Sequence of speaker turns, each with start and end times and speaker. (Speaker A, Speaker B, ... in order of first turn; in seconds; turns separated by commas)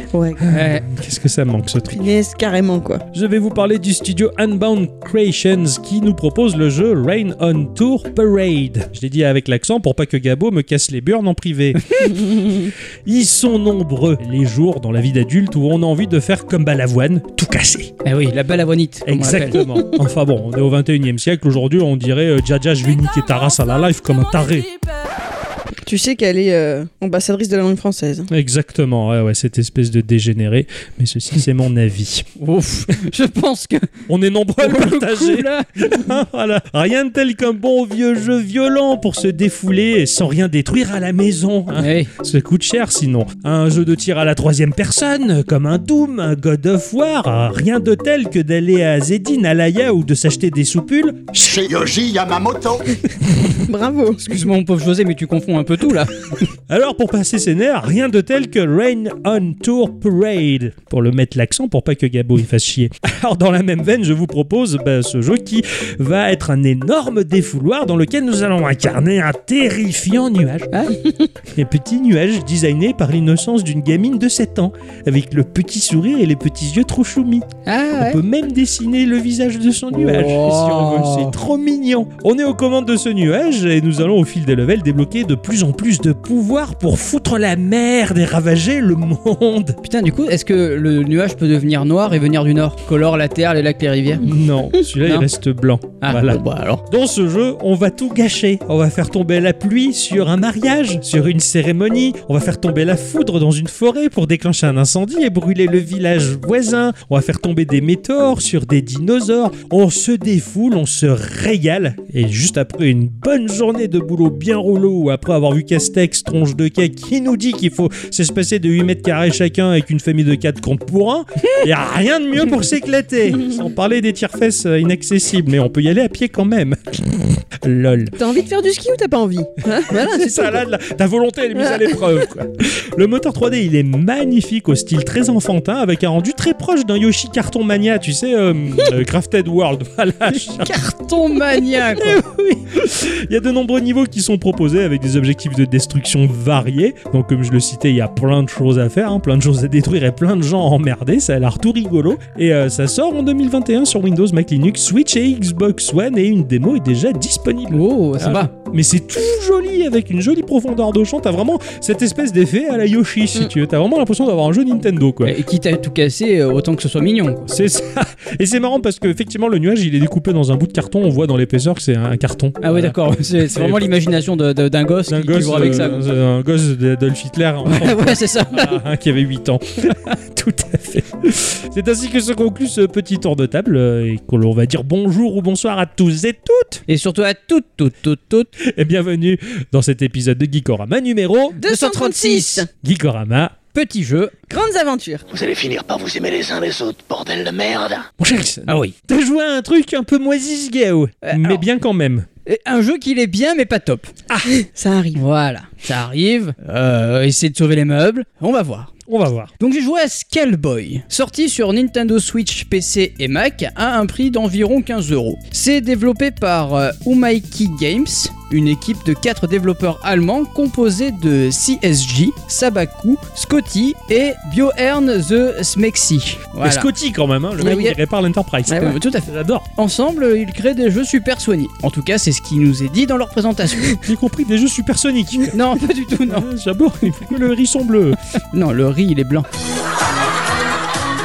Speaker A: 0.1-0.4, Speaker B: 0.4-2.1, Speaker C: 0.5-0.8, Speaker A: 1.9-3.0, Speaker B: 3.1-17.9, Speaker A: 12.2-12.7, Speaker C: 18.0-19.6, Speaker B: 19.1-24.7, Speaker A: 25.9-28.3, Speaker B: 28.3-32.3, Speaker C: 32.4-33.9, Speaker B: 34.1-51.6, Speaker C: 34.6-35.7, Speaker C: 41.8-42.1, Speaker D: 51.4-53.0, Speaker A: 53.6-54.3, Speaker C: 54.2-56.5, Speaker B: 56.7-70.7, Speaker C: 70.7-71.0, Speaker B: 71.5-89.8, Speaker C: 77.7-78.2, Speaker C: 79.9-81.3, Speaker C: 89.8-94.3, Speaker B: 94.2-128.2, Speaker C: 96.0-96.8, Speaker A: 128.2-130.6, Speaker B: 129.9-140.8, Speaker C: 140.3-142.2, Speaker B: 141.6-165.4, Speaker C: 157.7-158.5, Speaker C: 165.2-167.6, Speaker B: 167.5-173.9, Speaker C: 172.6-176.0, Speaker B: 175.1-186.8, Speaker C: 177.7-178.8, Speaker C: 186.9-188.5, Speaker B: 188.6-191.6, Speaker C: 191.6-192.7, Speaker A: 191.6-192.7, Speaker B: 192.8-193.6, Speaker C: 193.7-194.3, Speaker A: 194.5-195.2, Speaker D: 195.3-198.1, Speaker B: 198.2-202.3, Speaker C: 198.7-198.9, Speaker C: 201.2-201.6, Speaker C: 202.5-204.1, Speaker A: 204.5-205.2, Speaker C: 205.2-208.9, Speaker B: 209.1-209.5, Speaker C: 209.6-226.9, Speaker B: 226.6-229.7, Speaker C: 227.6-228.0, Speaker A: 228.7-228.9, Speaker C: 228.7-234.0, Speaker B: 234.0-235.6, Speaker C: 235.5-236.5, Speaker B: 236.3-238.2, Speaker C: 238.5-239.5